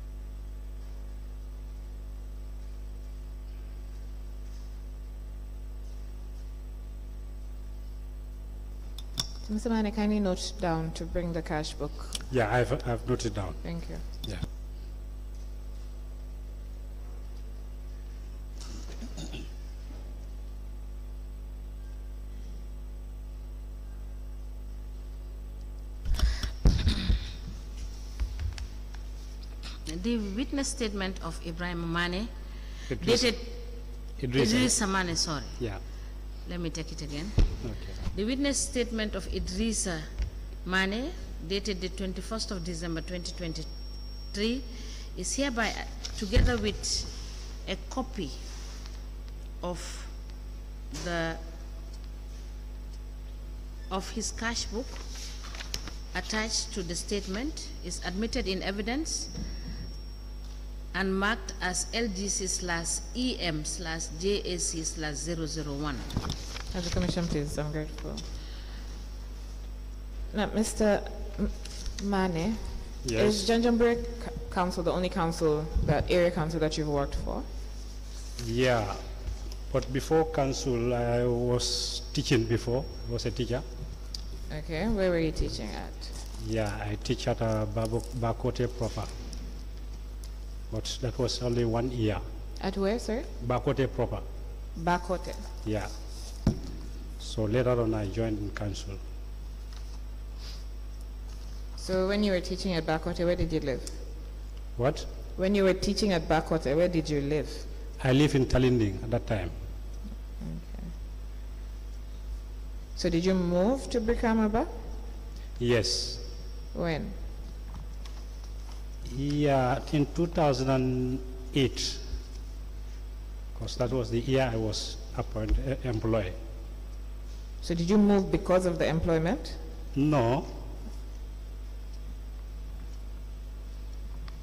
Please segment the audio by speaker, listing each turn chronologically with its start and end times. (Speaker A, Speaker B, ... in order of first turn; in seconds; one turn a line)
Speaker A: 9.5-12.2
Speaker B: 12.3-14.4
Speaker A: 13.6-14.0
Speaker C: 29.9-35.6
Speaker B: 32.9-33.3
Speaker B: 34.2-34.7
Speaker B: 35.6-35.8
Speaker C: 36.4-40.1
Speaker B: 37.6-38.0
Speaker C: 40.6-43.7
Speaker C: 44.2-48.4
Speaker C: 49.6-51.4
Speaker C: 53.9-55.0
Speaker C: 56.1-59.4
Speaker C: 60.9-66.2
Speaker A: 66.7-68.2
Speaker A: 70.3-77.5
Speaker B: 73.0-73.5
Speaker B: 78.4-79.1
Speaker B: 79.7-83.6
Speaker A: 84.5-86.1
Speaker B: 86.3-89.1
Speaker B: 90.7-92.2
Speaker A: 92.6-93.3
Speaker B: 93.4-94.2
Speaker A: 94.8-95.5
Speaker B: 95.6-95.9
Speaker B: 97.2-99.0
Speaker A: 101.8-104.0
Speaker B: 104.7-105.1
Speaker A: 105.3-107.7
Speaker B: 108.0-109.5
Speaker A: 110.4-110.9
Speaker A: 113.0-114.7
Speaker B: 115.6-116.2
Speaker A: 116.7-117.2
Speaker B: 119.0-122.0
Speaker B: 123.5-126.3
Speaker A: 127.6-129.6
Speaker B: 129.9-130.6